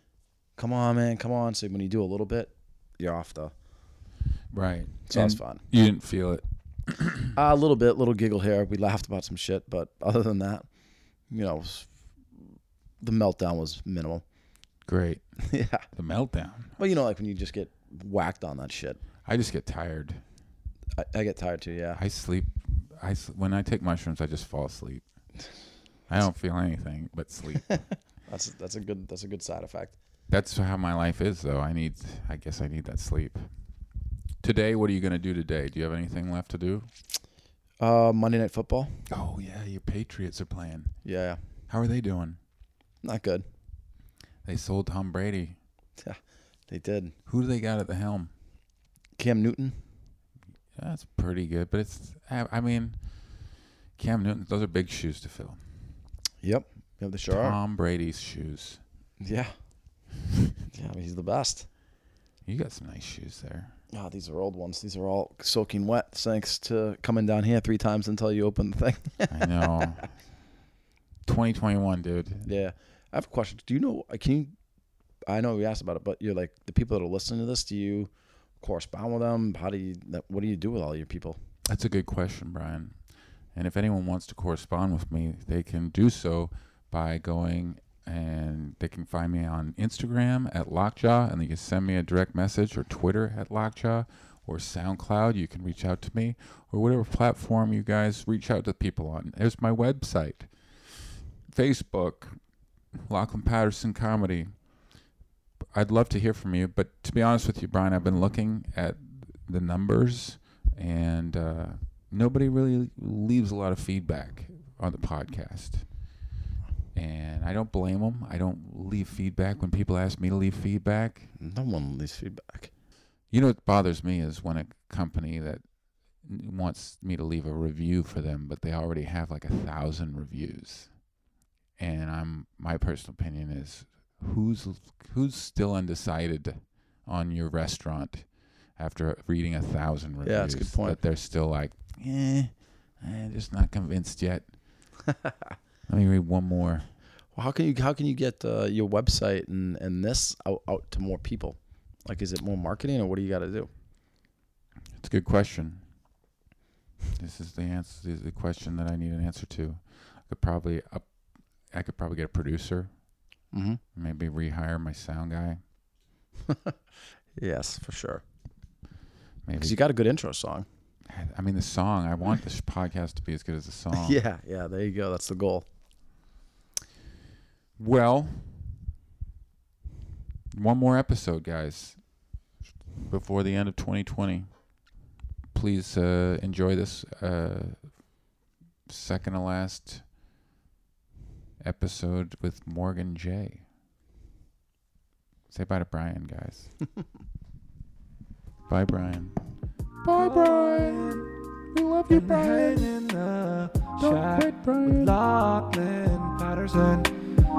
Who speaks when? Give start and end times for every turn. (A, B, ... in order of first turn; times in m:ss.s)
0:00.6-0:03.6 A
0:04.5-0:07.3 B
0:05.1-0:05.7 A
0:07.3-0:10.7 A
0:11.2-0:14.2 A
0:14.8-0:16.7 B
0:15.4-0:15.9 A
0:16.8-0:19.0 A
0:19.2-0:20.2 B
0:21.0-0:22.0 A
0:22.0-0:28.0 B
0:28.1-0:30.0 A
0:30.3-0:33.5 B
0:34.4-0:36.9 B
0:37.8-0:39.0 A
0:39.1-0:41.1 B
0:41.0-0:41.4 A
0:41.7-0:42.4 B
0:43.0-0:43.4 A
0:44.4-0:45.6 B
0:46.0-0:47.1 A
0:47.3-0:48.3 B
0:49.2-0:49.9 A
0:50.7-0:55.6 B
0:56.4-0:57.6 A
0:57.3-0:58.8 B
0:59.2-1:00.0 A
1:00.7-1:01.7 A
1:02.4-1:03.8 B
1:03.9-1:09.7 A
1:09.3-1:10.2 B
1:11.2-1:12.5 B
1:12.4-1:14.5 A
1:15.2-1:21.4 A
1:21.6-1:42.4 B
1:42.9-1:44.7 B
1:45.6-1:56.2 B
1:56.9-2:01.3 B
2:01.4-2:02.7 A
2:03.3-2:11.1 B
2:11.8-2:24.6 B
2:20.2-2:21.0 A
2:25.9-2:26.9 B
2:27.3-2:33.7 A
2:35.0-2:35.9 B
2:37.2-2:43.0 B
2:43.5-2:43.8 A
2:43.9-2:45.6 B
2:47.4-2:48.2 A
2:49.4-2:49.8 B
2:49.6-2:50.6 A
2:51.1-2:54.2 B
2:53.9-2:55.7 A
2:57.8-2:58.8 B
3:00.5-3:02.3 B
3:02.9-3:04.5 B
3:05.5-3:08.0 B
3:08.9-3:10.1 B
3:11.6-3:13.6 B
3:15.5-3:16.7 B
3:18.7-3:21.0 B
3:20.1-3:21.3 C
3:21.7-3:22.9 B
3:22.1-3:27.1 C
3:24.0-3:25.1 B